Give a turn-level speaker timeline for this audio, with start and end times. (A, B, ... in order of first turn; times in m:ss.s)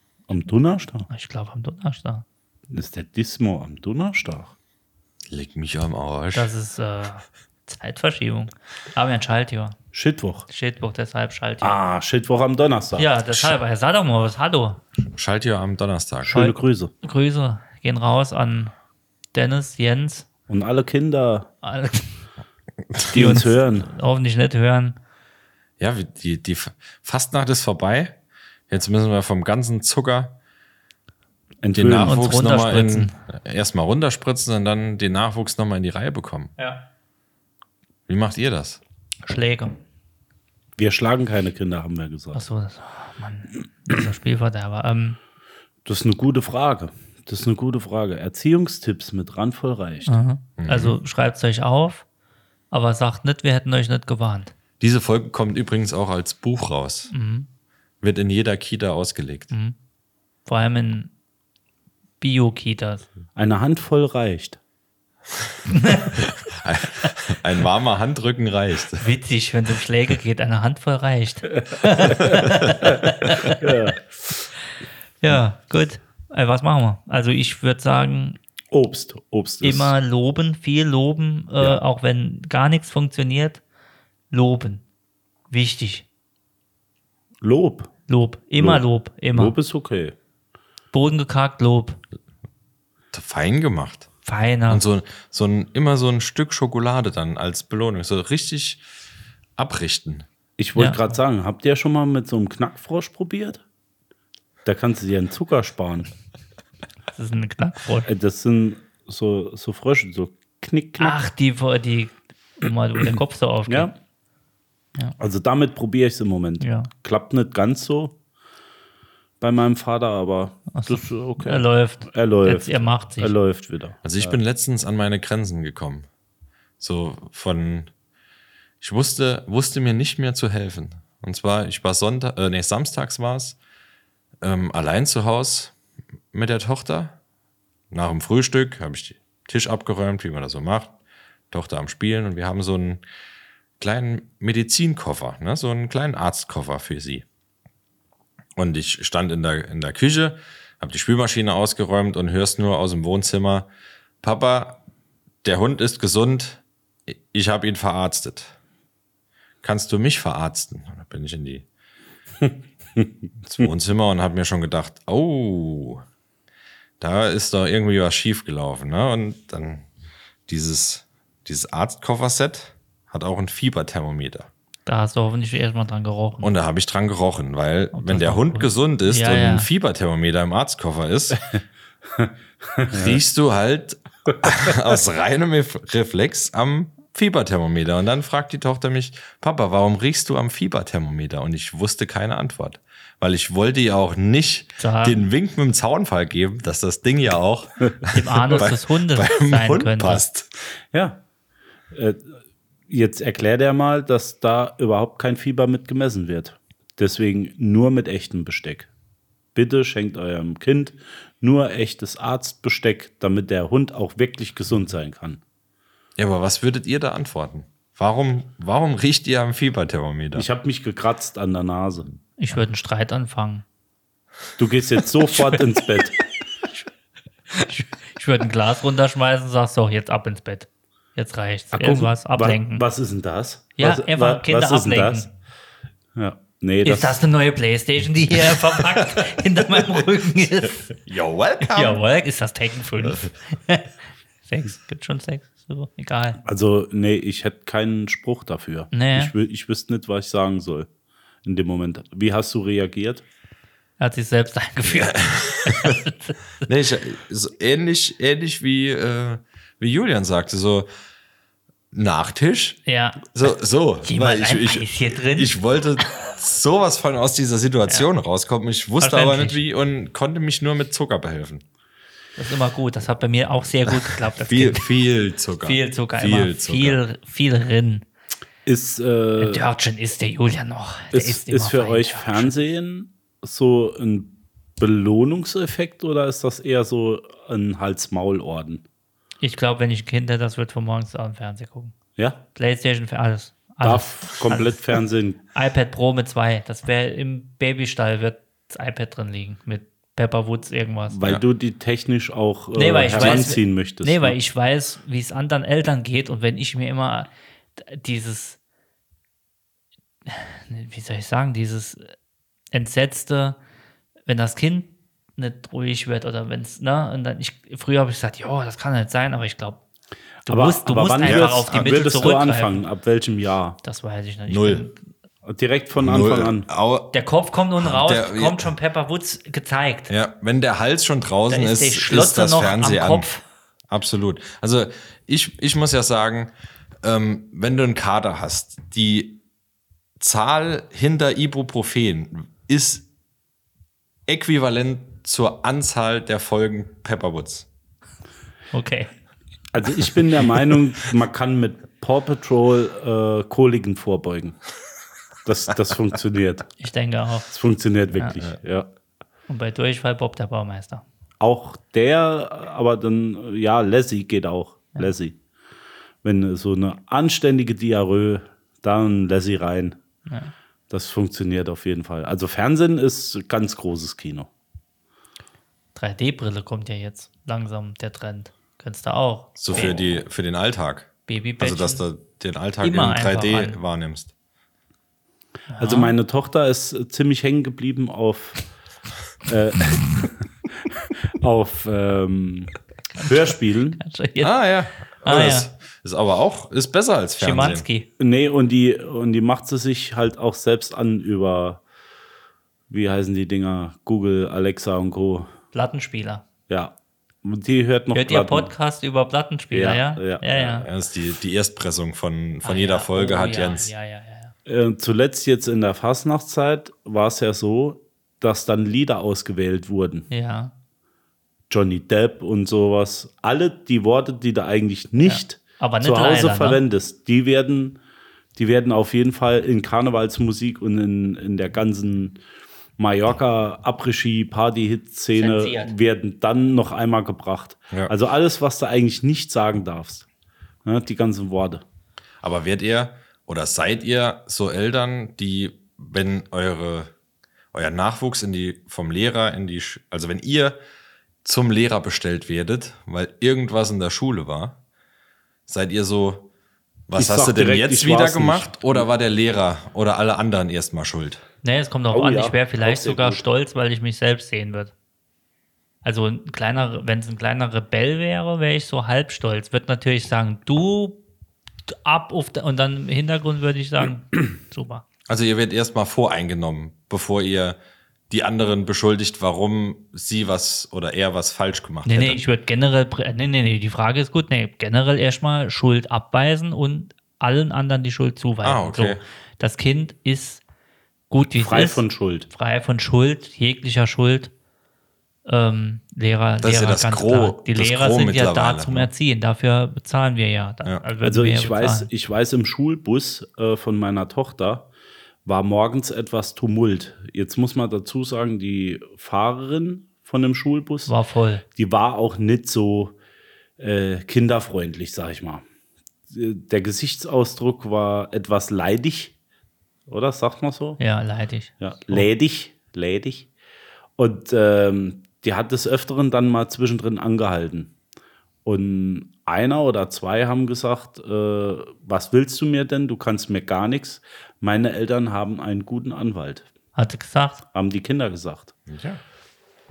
0:00.3-0:01.1 A
0:01.1-0:02.2 B
0:02.7-0:04.5 A
0:05.3-0:06.5 C
0:06.3-0:09.8 B
0:09.9-0:10.4 A
0:10.5-0:11.8 B
0:11.6-0:13.2 A
0:13.0-0:14.8 B
0:15.1-0:16.4 C
0:16.2-0:16.9 A
0:16.3-0:18.7 B
0:19.3-0:20.3 B
0:20.5-0:21.5 A
0:21.6-0:22.1 B
0:23.1-0:23.9 A
0:23.1-0:25.0 B
0:25.8-0:28.2 C
0:28.7-0:30.4 C
0:31.6-0:32.2 A
0:31.7-0:36.5 C
0:32.0-0:33.1 B
0:36.6-0:36.8 B
0:38.1-0:38.8 C
0:39.2-0:39.7 B
0:40.8-0:42.4 A
0:42.3-0:45.2 B
0:45.8-0:50.2 A
0:50.1-0:52.0 B
0:50.6-0:51.0 C
0:52.7-0:54.5 B
0:54.8-0:57.1 C
0:57.1-0:57.5 B
0:58.0-0:59.5 C
0:59.5-0:59.8 B
1:00.4-1:01.1 B
1:02.2-1:03.1 B
1:03.3-1:04.6 A
1:05.7-1:06.2 B
1:06.2-1:09.1 C
1:08.9-1:13.6 B
1:13.6-1:14.0 A
1:15.2-1:18.4 B
1:18.7-1:20.0 A
1:19.6-1:23.6 B
1:24.3-1:24.8 B
1:25.5-1:26.0 B
1:27.4-1:27.9 A
1:28.1-1:29.6 B
1:28.6-1:30.1 A
1:30.9-1:32.0 B
1:33.1-1:34.1 C
1:34.2-1:34.8 B
1:34.7-1:38.8 C
1:39.6-1:40.3 C
1:40.6-1:43.6 A
1:40.8-1:41.0 B
1:44.6-1:46.1 A
1:47.1-1:48.1 B
1:48.0-1:51.2 A
1:51.0-1:53.9 B
1:55.2-1:58.2 A
1:56.6-1:56.9 B
1:59.4-2:04.4 A
2:00.7-2:03.4 B
2:04.0-2:06.1 C
2:06.8-2:07.9 C
2:08.8-2:13.6 C
2:14.4-2:15.7 C
2:16.3-2:17.2 C
2:17.9-2:20.9 C
2:21.5-2:23.0 C
2:23.8-2:27.2 C
2:28.6-2:33.7 C
2:34.2-2:34.8 C
2:35.4-2:38.6 C
2:39.6-2:41.6 C
2:42.4-2:43.6 A
2:43.5-2:46.0 C
2:47.0-2:49.9 C
2:50.5-2:54.5 C
2:54.8-2:56.5 B
2:56.4-3:01.4 C
2:57.9-2:59.7 B
3:02.2-3:03.1 A
3:02.9-3:20.5 C
3:14.8-3:15.2 B
3:18.1-3:20.2 B
3:20.9-3:21.2 A
3:21.9-3:22.4 A
3:22.9-3:28.9 A
3:29.5-3:35.4 A
3:36.2-3:40.5 C
3:40.3-3:42.1 A
3:42.4-3:43.6 B
3:44.6-3:46.2 A
3:45.3-3:45.6 B
3:47.5-3:52.8 B
3:51.7-3:55.3 A
3:53.8-3:55.3 B
3:56.2-3:57.2 A
3:56.8-4:01.0 B
3:58.6-3:59.9 C
4:01.0-4:02.0 C
4:01.6-4:03.9 B
4:04.4-4:06.4 B
4:06.4-4:10.9 A
4:08.9-4:09.3 B
4:11.4-4:13.2 A
4:14.0-4:16.4 B
4:14.8-4:16.0 C
4:16.6-4:20.9 C
4:21.9-4:31.6 C
4:22.8-4:23.4 B
4:24.0-4:25.6 B
4:29.0-4:29.6 B
4:32.4-4:35.0 B
4:33.9-4:37.0 C
4:35.6-4:38.0 B
4:38.6-4:39.6 A
4:39.4-4:42.5 B
4:41.1-4:48.8 A
4:49.4-4:51.9 B
4:52.2-4:52.4 A
4:52.5-4:55.0 B
4:53.8-4:55.4 A
4:55.5-5:01.2 B
5:01.1-5:04.4 A
5:02.7-5:08.6 B
5:03.2-5:03.4 C
5:10.2-5:12.1 B
5:12.7-5:13.6 B
5:14.2-5:19.8 B
5:20.4-5:22.8 B
5:20.5-5:23.8 A
5:21.2-5:21.5 C
5:23.8-5:25.0 B
5:24.5-5:24.9 C
5:25.4-5:26.7 A
5:26.0-5:27.2 C
5:27.1-5:30.1 B
5:27.8-5:28.7 C
5:30.1-5:33.3 C
5:31.5-5:33.4 B
5:33.9-5:36.5 C
5:37.0-5:39.4 C
5:40.2-5:43.0 C
5:44.3-5:47.7 C
5:48.7-5:49.1 B
5:49.7-5:54.6 A
5:55.4-5:56.7 A
5:56.8-5:57.5 B
5:57.5-5:58.9 A
5:58.1-5:58.4 B
5:59.5-6:01.0 B
6:01.4-6:05.4 A
6:06.2-6:10.0 A
6:10.3-6:10.5 B
6:10.9-6:14.5 A
6:15.9-6:20.2 B
6:19.6-6:24.3 C
6:21.3-6:22.0 B
6:22.8-6:23.8 B
6:25.7-6:26.2 B
6:25.8-6:28.6 A
6:29.4-6:30.4 A
6:31.4-6:34.0 A
6:33.2-6:34.6 B
6:34.4-6:37.8 C
6:35.2-6:35.7 B
6:37.4-6:38.1 B
6:38.2-6:41.8 A
6:42.9-6:45.5 A
6:45.7-6:46.4 B
6:46.7-6:48.7 A
6:48.1-6:50.9 B
6:49.7-6:50.9 A
6:50.8-6:53.9 C
6:52.6-6:54.5 B
6:54.6-7:00.3 A
7:00.3-7:00.7 B
7:01.7-7:08.0 A
7:05.2-7:06.8 B
7:08.6-7:12.4 A
7:13.0-7:20.2 A
7:15.3-7:15.9 B
7:20.8-7:21.8 A
7:22.4-7:27.1 C
7:27.7-7:30.8 C
7:31.4-7:34.8 C
7:35.7-7:36.5 C
7:37.1-7:41.4 C
7:37.1-7:39.1 A
7:41.6-7:44.9 B
7:42.1-7:43.4 A
7:46.0-7:51.2 B
7:51.9-7:55.0 B
7:55.3-7:57.8 C
7:58.3-8:02.4 C
8:02.0-8:10.6 B
8:08.6-8:09.2 C
8:11.3-8:14.5 B
8:11.4-8:12.5 A
8:15.4-8:22.1 B
8:16.6-8:19.1 C
8:21.2-8:24.9 A
8:25.4-8:31.1 A
8:31.0-8:31.6 B
8:31.8-8:33.2 A
8:33.8-8:35.6 A
8:36.3-8:39.4 A
8:40.1-8:41.0 A
8:41.0-8:42.2 B
8:41.8-8:43.5 A
8:44.2-8:47.9 A
8:48.6-8:56.7 A
8:56.9-8:57.6 B
8:57.7-8:58.7 A
8:58.9-8:59.2 C